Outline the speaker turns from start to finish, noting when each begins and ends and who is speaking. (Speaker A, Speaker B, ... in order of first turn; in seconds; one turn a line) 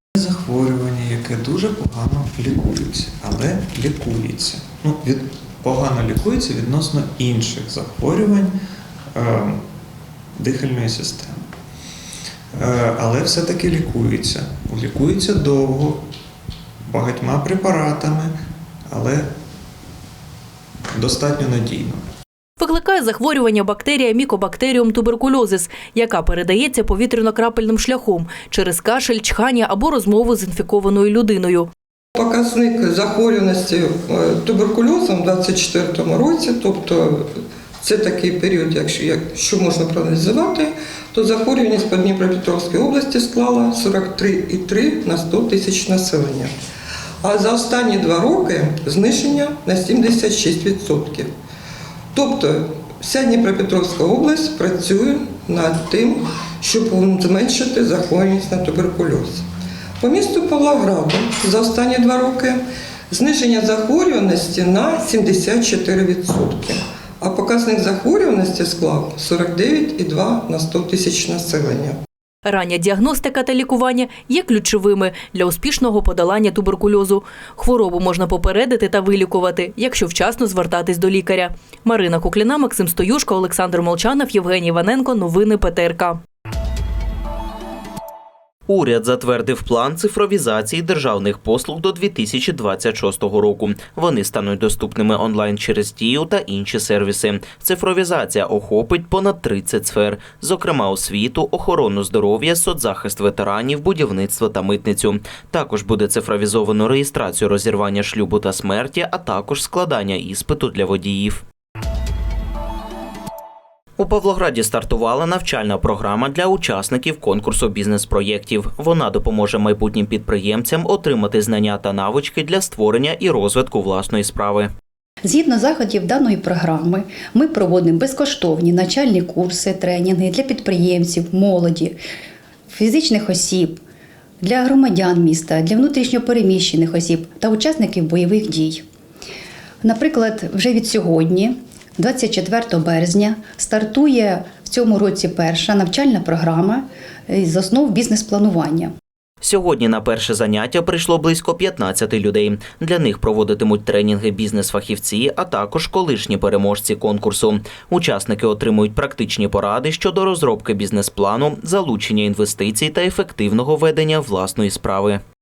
Speaker A: 0.1-8.5
Speaker A: 9.1-9.6
Speaker A: 10.3-11.4
Speaker A: 12.6-16.0
Speaker A: 16.9-18.3
Speaker A: 18.9-19.3
Speaker A: 20.9-22.0
Speaker B: 22.6-31.7
Speaker C: 32.1-46.5
Speaker C: 47.2-51.3
Speaker C: 52.1-59.5
Speaker C: 60.0-72.0
Speaker B: 72.5-86.2
Speaker D: 88.7-111.4
Speaker D: 114.0-124.7
Speaker E: 125.2-132.0
Speaker E: 132.7-133.8
Speaker E: 134.4-138.8
Speaker E: 139.8-148.9
Speaker D: 149.4-165.2